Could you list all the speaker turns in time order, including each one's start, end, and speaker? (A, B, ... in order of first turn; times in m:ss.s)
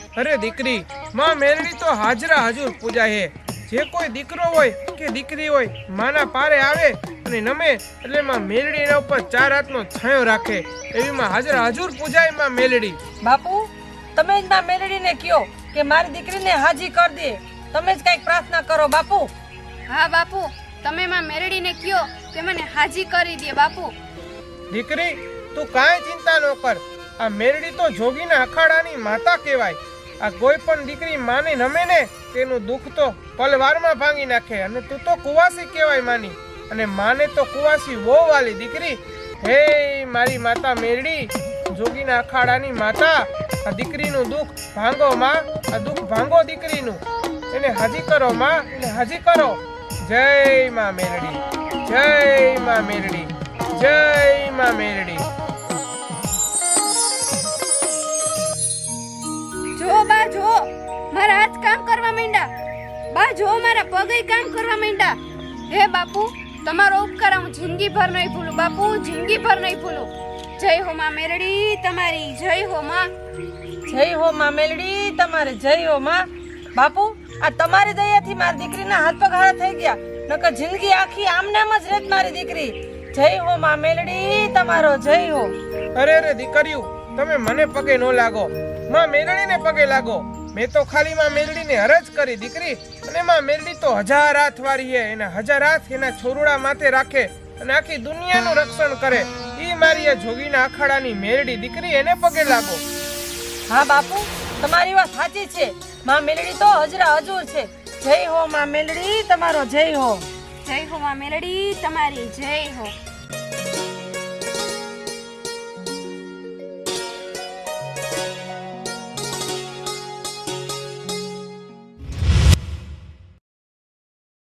0:00.2-0:13.0 A
0:13.2-0:19.3 B
0:19.9-0:23.9 C
0:24.7-0:55.2 A
0:59.8-1:02.5 C
1:03.1-1:05.2 C
1:05.7-1:13.1 C
1:13.9-1:25.5 B
1:26.0-1:42.8 A
1:43.7-1:50.3 B
1:50.6-1:52.9 C